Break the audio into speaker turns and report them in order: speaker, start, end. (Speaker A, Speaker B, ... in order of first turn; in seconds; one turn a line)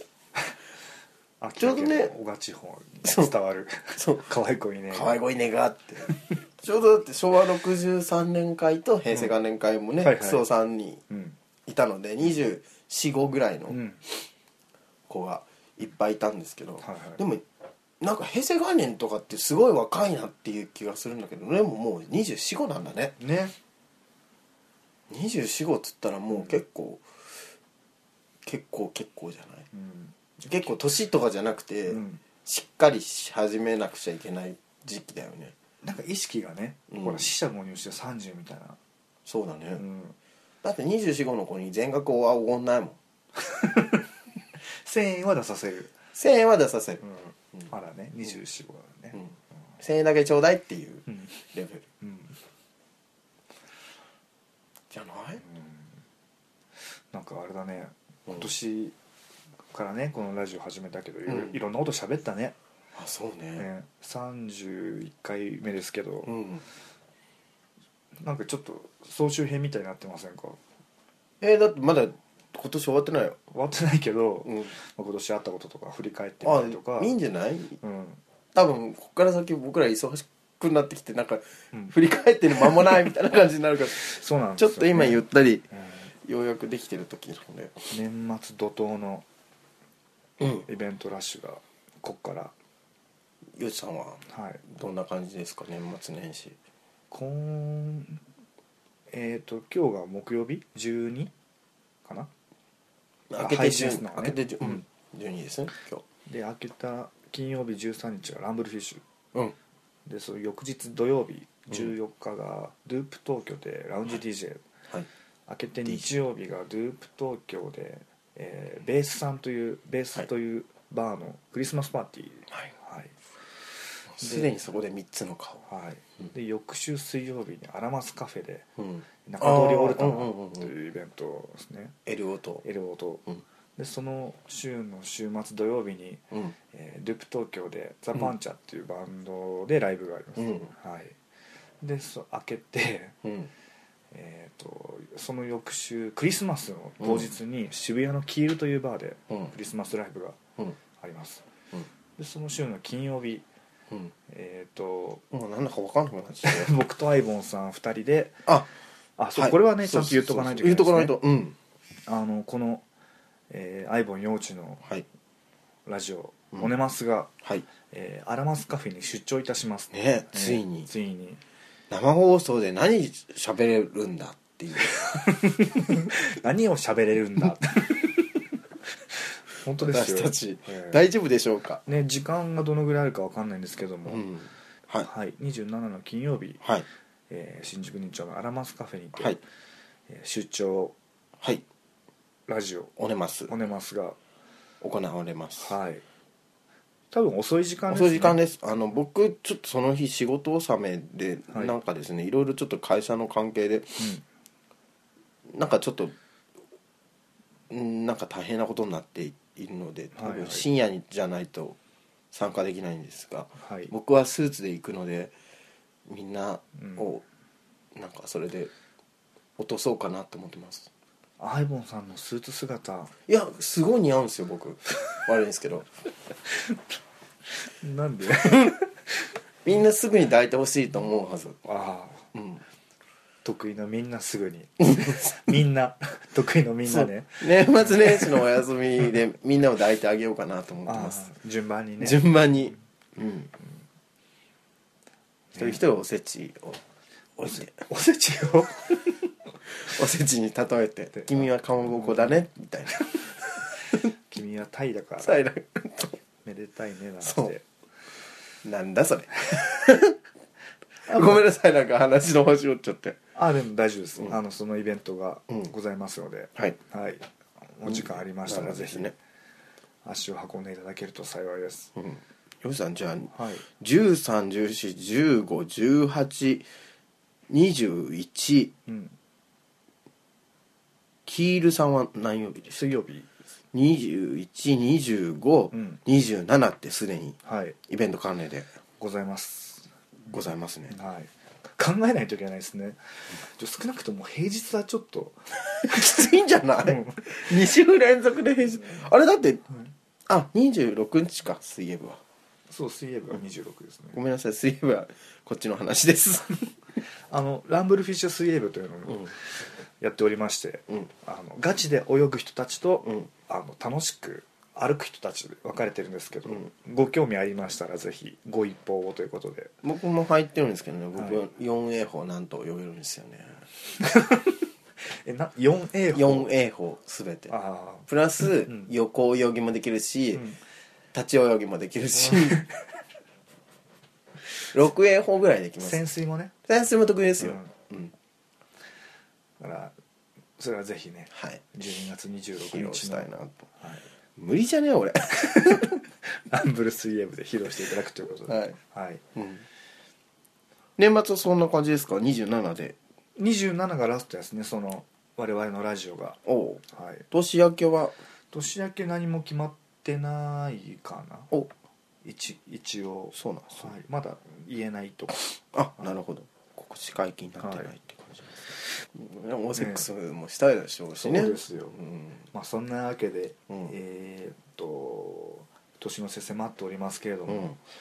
Speaker A: 1.4-5.2
Speaker B: 1.6-2.1
Speaker B: 3.0-3.3
Speaker B: 3.9-4.3
Speaker B: 4.9-11.0
Speaker A: 10.0-10.4
Speaker A: 11.1-11.4
Speaker B: 11.7-13.8
Speaker A: 13.7-14.0
Speaker B: 15.1-17.4
Speaker A: 16.8-17.2
Speaker B: 18.0-23.2
Speaker A: 23.2-23.5
Speaker B: 25.1-27.0
Speaker B: 28.4-29.7
Speaker A: 29.7-30.5
Speaker B: 30.4-35.5
Speaker A: 31.9-32.2
Speaker A: 35.8-38.8
Speaker B: 36.9-37.3
Speaker B: 39.2-39.8
Speaker A: 39.8-40.1
Speaker B: 40.6-43.0
Speaker A: 43.4-44.1
Speaker A: 44.6-45.9
Speaker B: 46.1-47.0
Speaker A: 47.0-49.2
Speaker B: 49.1-51.9
Speaker A: 52.0-52.4
Speaker B: 54.9-55.4
Speaker A: 55.4-56.0
Speaker A: 57.1-58.9
Speaker A: 59.7-62.6
Speaker B: 61.3-61.5
Speaker B: 62.9-63.7
Speaker A: 63.6-66.3
Speaker B: 66.2-66.6
Speaker A: 68.2-70.6
Speaker B: 71.4-73.4
Speaker A: 73.5-77.1
Speaker B: 74.5-74.7
Speaker B: 76.4-77.8
Speaker A: 77.8-78.2
Speaker B: 78.5-85.7
Speaker A: 84.0-86.1
Speaker B: 86.2-87.9
Speaker A: 87.9-89.2
Speaker B: 90.4-90.7
Speaker A: 90.7-92.5
Speaker B: 93.5-96.6
Speaker A: 94.3-94.6
Speaker A: 97.1-98.2
Speaker A: 99.1-101.3
Speaker A: 102.0-102.3
Speaker B: 103.3-106.0
Speaker A: 103.4-104.8
Speaker A: 106.2-109.0
Speaker A: 110.0-114.6
Speaker A: 115.5-123.1
Speaker B: 124.1-125.7
Speaker A: 124.2-124.5
Speaker A: 125.7-128.7
Speaker B: 128.8-130.7
Speaker A: 129.2-131.9
Speaker B: 132.1-132.6
Speaker A: 132.6-133.2
Speaker A: 133.8-141.2
Speaker B: 140.4-140.7
Speaker A: 141.8-143.1
Speaker B: 143.2-143.5
Speaker A: 144.1-150.4
Speaker B: 147.0-147.3
Speaker A: 151.0-151.4
Speaker A: 152.2-153.4
Speaker A: 154.3-155.2
Speaker B: 155.3-156.7
Speaker A: 156.4-158.4
Speaker A: 159.2-161.2
Speaker B: 159.3-161.6
Speaker A: 162.1-162.8
Speaker A: 163.5-164.8
Speaker A: 165.8-167.3
Speaker A: 167.8-171.4
Speaker B: 169.9-170.9
Speaker B: 171.9-175.3
Speaker A: 175.4-178.5
Speaker A: 179.1-181.0
Speaker B: 179.8-181.8
Speaker A: 181.8-184.2
Speaker B: 184.1-185.1
Speaker A: 185.0-186.6
Speaker A: 187.3-189.4
Speaker A: 190.1-190.9
Speaker A: 192.5-192.9
Speaker B: 193.0-193.5
Speaker A: 193.5-194.2
Speaker B: 194.8-195.7
Speaker A: 195.6-196.0
Speaker A: 197.1-198.4
Speaker B: 197.9-204.1
Speaker A: 204.0-204.2
Speaker B: 205.5-206.1
Speaker B: 207.7-211.8
Speaker A: 210.2-210.6
Speaker B: 212.3-215.3
Speaker A: 213.6-213.9
Speaker B: 216.1-217.2
Speaker A: 216.8-217.1
Speaker B: 217.9-218.7
Speaker B: 219.6-220.9
Speaker A: 221.4-223.1
Speaker B: 223.3-225.9
Speaker A: 227.5-229.3
Speaker B: 229.6-231.6
Speaker A: 231.6-232.3
Speaker B: 232.3-232.6
Speaker A: 233.4-238.4
Speaker B: 235.0-235.2
Speaker B: 236.8-241.3
Speaker A: 240.8-242.2
Speaker B: 242.0-243.5
Speaker A: 245.5-245.8
Speaker B: 245.6-246.8
Speaker B: 247.4-247.8
Speaker A: 247.5-249.2
Speaker B: 249.8-254.1
Speaker A: 251.2-252.4
Speaker A: 253.9-255.4
Speaker B: 255.2-256.2
Speaker A: 256.4-257.6
Speaker B: 257.2-257.5
Speaker B: 258.6-260.2
Speaker B: 261.1-263.2
Speaker A: 261.1-261.4
Speaker A: 263.3-269.1
Speaker B: 267.9-269.1
Speaker A: 270.0-271.9
Speaker B: 271.9-276.7
Speaker A: 273.3-273.6
Speaker B: 277.5-278.7
Speaker A: 278.9-279.1
Speaker B: 281.2-282.8
Speaker A: 282.7-283.3
Speaker B: 283.7-288.7
Speaker A: 285.7-286.0
Speaker A: 287.4-287.8
Speaker A: 289.0-289.9
Speaker B: 290.3-290.9
Speaker A: 290.9-296.1
Speaker B: 295.7-299.6
Speaker A: 296.8-297.3
Speaker B: 300.3-302.2
Speaker A: 302.7-304.2
Speaker B: 304.1-306.7
Speaker A: 307.3-309.5
Speaker A: 310.0-319.7
Speaker B: 319.8-323.6
Speaker A: 324.0-326.5
Speaker B: 326.1-327.5
Speaker A: 327.5-328.9
Speaker B: 328.1-330.4
Speaker B: 331.1-332.6
Speaker A: 332.3-332.6
Speaker B: 334.7-336.0
Speaker A: 335.8-336.5
Speaker B: 336.7-338.1
Speaker A: 337.4-337.7
Speaker A: 339.6-339.9
Speaker A: 340.6-343.3
Speaker B: 341.3-341.6
Speaker B: 342.6-343.6
Speaker A: 343.8-344.1
Speaker B: 344.4-346.0
Speaker A: 345.4-349.2
Speaker B: 348.5-348.8
Speaker B: 349.3-349.6
Speaker B: 351.0-353.0
Speaker A: 353.4-357.3
Speaker B: 356.4-358.2
Speaker A: 358.5-361.5
Speaker A: 362.2-365.4
Speaker B: 363.3-363.9
Speaker B: 365.6-372.4
Speaker A: 367.6-367.9
Speaker A: 369.8-370.1
Speaker A: 371.2-371.9
Speaker A: 372.5-377.7
Speaker B: 377.5-377.8